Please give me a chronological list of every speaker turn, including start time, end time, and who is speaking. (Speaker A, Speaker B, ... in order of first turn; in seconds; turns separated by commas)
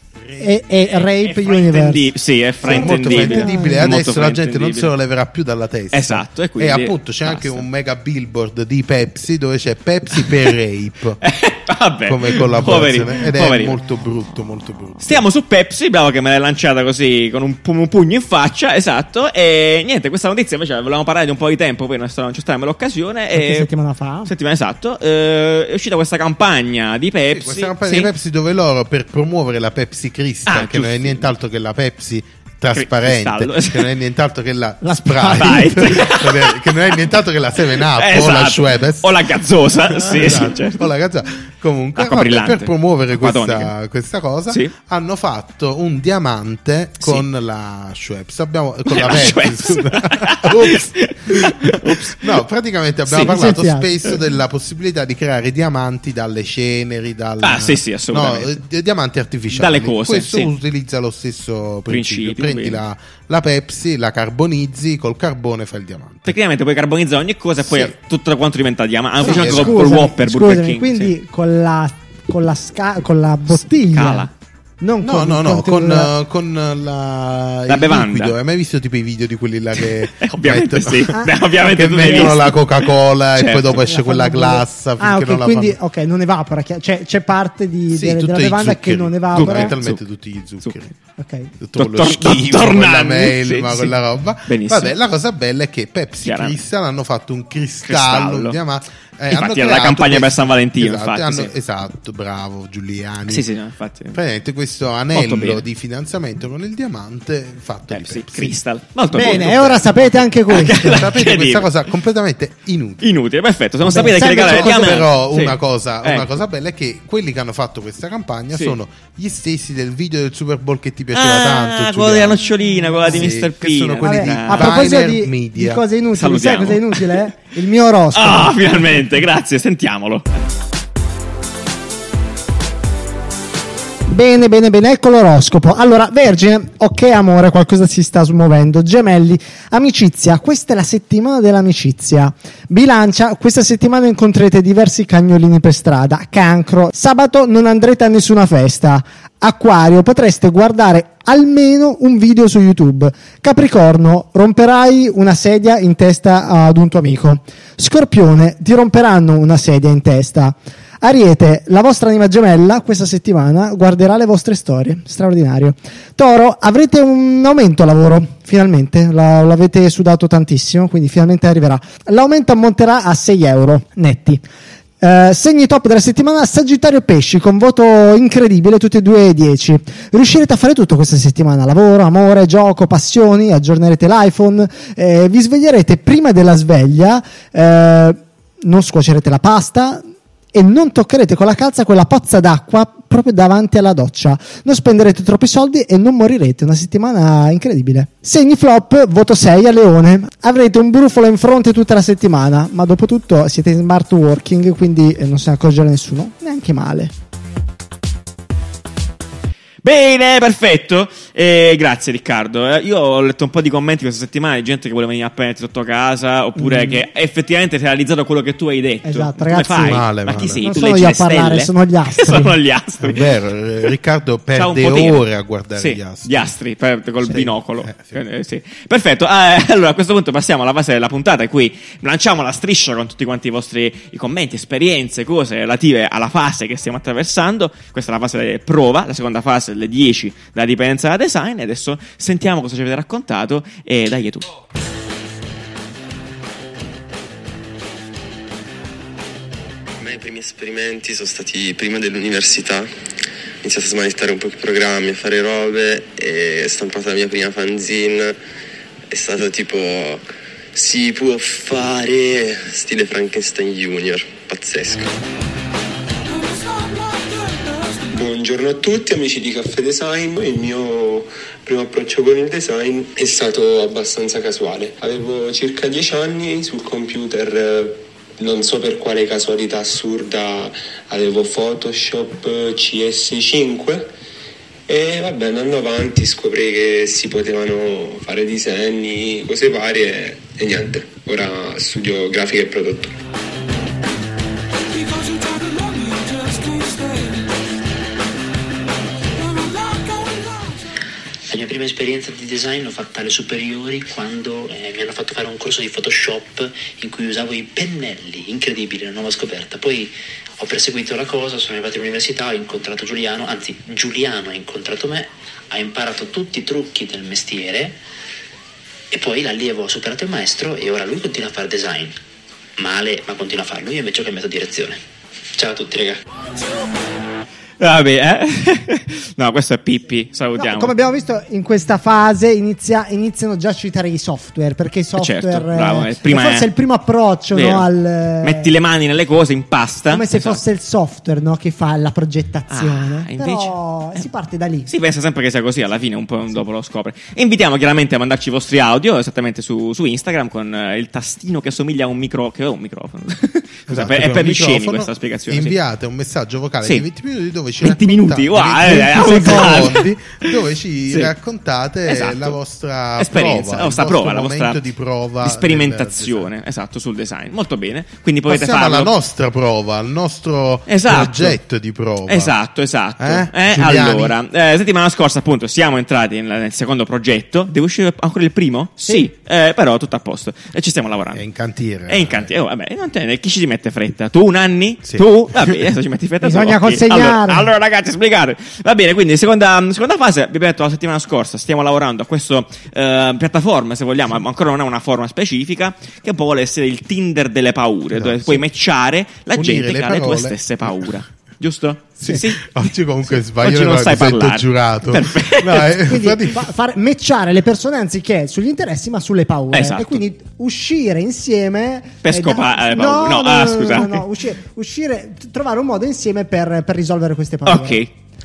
Speaker A: 0.2-0.7, Speaker B: 0.4-2.1, Speaker C: 0.8-4.9, Speaker B: 2.6-3.9, Speaker A: 2.6-11.2, Speaker C: 5.9-7.7, Speaker C: 10.1-10.5, Speaker C: 11.2-13.8, Speaker A: 12.1-15.2, Speaker C: 15.0-23.7, Speaker B: 23.3-24.3, Speaker C: 24.3-28.1, Speaker A: 27.3-39.2, Speaker C: 30.5-31.3, Speaker C: 32.7-33.9, Speaker B: 34.8-36.0, Speaker C: 35.4-37.1, Speaker C: 37.8-40.9, Speaker A: 39.9-66.3, Speaker C: 42.0-43.7, Speaker C: 48.9-52.4, Speaker B: 53.2-53.9, Speaker C: 57.4-58.6, Speaker C: 59.5-60.5, Speaker C: 61.9-62.8, Speaker C: 66.3-71.1, Speaker A: 67.6-67.9, Speaker B: 69.2-74.3, Speaker A: 69.2-70.0, Speaker C: 73.5-74.3, Speaker B: 74.8-76.1, Speaker A: 75.0-85.8, Speaker C: 77.7-78.4, Speaker C: 79.8-83.8, Speaker B: 83.8-89.7, Speaker A: 87.9-91.0, Speaker C: 89.3-90.0, Speaker B: 91.2-91.5, Speaker A: 91.6-103.5, Speaker C: 91.8-93.9, Speaker C: 94.5-95.0, Speaker C: 96.2-96.6, Speaker C: 97.8-98.6, Speaker C: 99.3-101.5, Speaker C: 103.3-104.2, Speaker A: 104.1-108.6, Speaker C: 105.1-105.7, Speaker C: 107.9-111.7, Speaker B: 109.1-111.1, Speaker A: 109.2-109.7, Speaker A: 110.8-113.0, Speaker C: 113.0-116.3, Speaker B: 113.8-115.0, Speaker A: 114.2-122.5, Speaker C: 121.1-125.0, Speaker A: 123.1-125.8, Speaker B: 124.0-129.0, Speaker C: 126.1-127.3, Speaker C: 128.1-130.3, Speaker B: 134.1-174.4, Speaker B: 175.0-207.1, Speaker C: 209.8-223.3, Speaker B: 216.6-217.0, Speaker B: 219.1-220.0, Speaker A: 219.8-220.6, Speaker B: 220.6-222.6, Speaker A: 223.0-226.5, Speaker C: 224.6-225.2, Speaker C: 225.8-244.5, Speaker A: 227.2-228.2, Speaker D: 250.0-252.9, Speaker D: 253.6-258.4, Speaker D: 259.1-265.1, Speaker E: 268.0-284.1, Speaker E: 284.9-293.2, Speaker F: 301.5-318.0, Speaker F: 319.1-322.2, Speaker F: 322.8-325.0, Speaker F: 325.6-326.2, Speaker C: 327.8-330.9, Speaker B: 330.6-338.7, Speaker C: 335.2-336.7, Speaker C: 337.5-337.9, Speaker C: 338.4-340.6, Speaker B: 340.1-344.9, Speaker C: 342.7-343.7, Speaker C: 344.9-355.8, Speaker A: 353.9-366.5, Speaker C: 357.8-360.6, Speaker B: 359.0-359.8, Speaker C: 362.1-362.6, Speaker C: 363.2-364.8, Speaker C: 365.4-369.1, Speaker A: 368.5-372.5, Speaker C: 370.9-371.6, Speaker C: 372.3-381.4, Speaker A: 373.2-374.4, Speaker A: 381.3-382.5, Speaker C: 382.1-406.0, Speaker B: 386.4-387.7, Speaker A: 398.1-398.6, Speaker A: 399.6-401.1, Speaker A: 402.2-406.6, Speaker B: 406.0-418.0, Speaker C: 409.7-410.2, Speaker C: 412.2-414.2, Speaker C: 417.7-418.1